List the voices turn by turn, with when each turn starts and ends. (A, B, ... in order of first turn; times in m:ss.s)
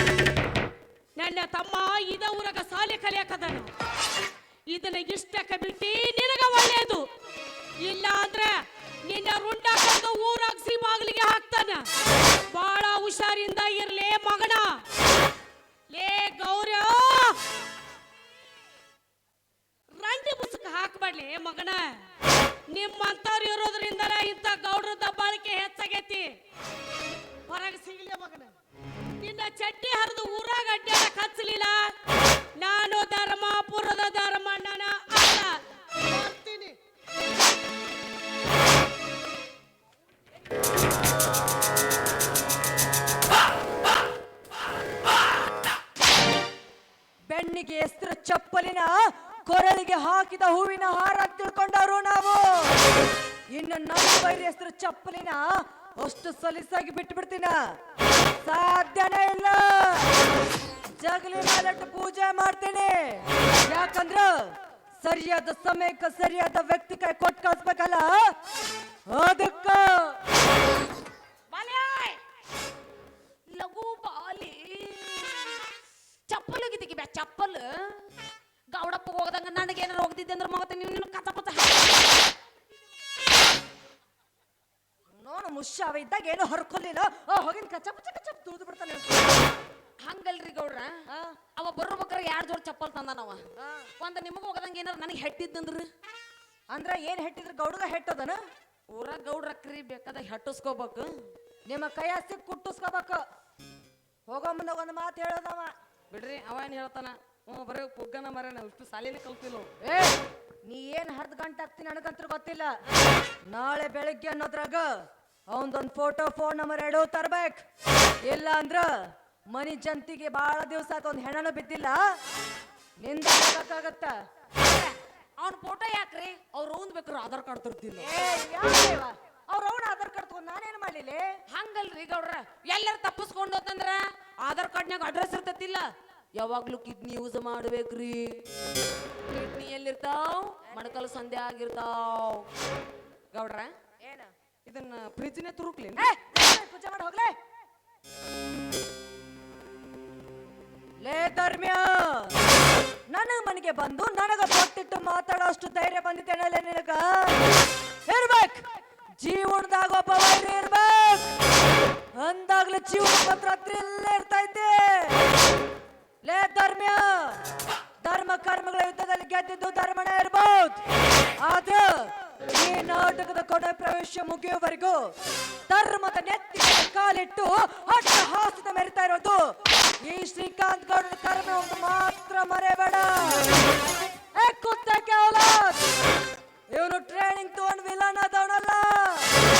0:01.2-0:03.7 A
0:04.7-0:07.0 A
0:07.8-0:11.9 A
0:12.5-0:14.7 A
0:15.9-0:17.4 A
0:20.0-0:22.0 A
0:22.7-0:26.3 A
0:27.5-0:28.5 A
0:29.2-0:31.9 A
0:32.6-0:36.8 A
0:47.3-0:52.8 B
0:53.5-0:57.5 B
0:58.4-1:00.1 B
1:01.0-1:08.3 B
1:09.1-1:10.2 B
1:11.5-1:12.2 C
1:13.5-1:15.6 C
1:16.3-1:18.1 C
1:18.7-1:22.1 C
1:25.2-1:29.4 B
1:30.0-1:30.9 C
1:31.1-1:31.4 B
1:31.6-1:33.4 C
1:33.6-1:33.9 B
1:34.0-1:35.9 C
1:36.7-1:38.4 B
1:38.9-1:41.1 C
1:41.7-1:43.2 B
1:44.3-1:45.7 B
1:46.1-1:49.7 C
1:49.8-1:52.7 B
1:53.5-1:54.9 B
1:55.5-1:57.6 B
1:58.2-2:02.0 B
2:03.0-2:04.1 B
2:04.6-2:08.1 C
2:08.0-2:11.3 B
2:11.5-2:18.4 C
2:19.3-2:22.5 C
2:23.3-2:23.7 C
2:24.0-2:24.3 B
2:24.6-2:26.0 C
2:25.9-2:27.3 B
2:31.0-2:32.3 B
2:33.1-2:37.5 B
2:38.1-2:38.6 B
2:39.2-2:41.3 B
2:42.2-2:45.2 B
2:46.2-2:47.4 B
2:48.0-2:50.8 B
2:51.4-2:55.1 B
2:55.7-3:03.6 B
3:04.3-3:05.8 B
3:06.7-3:09.3 B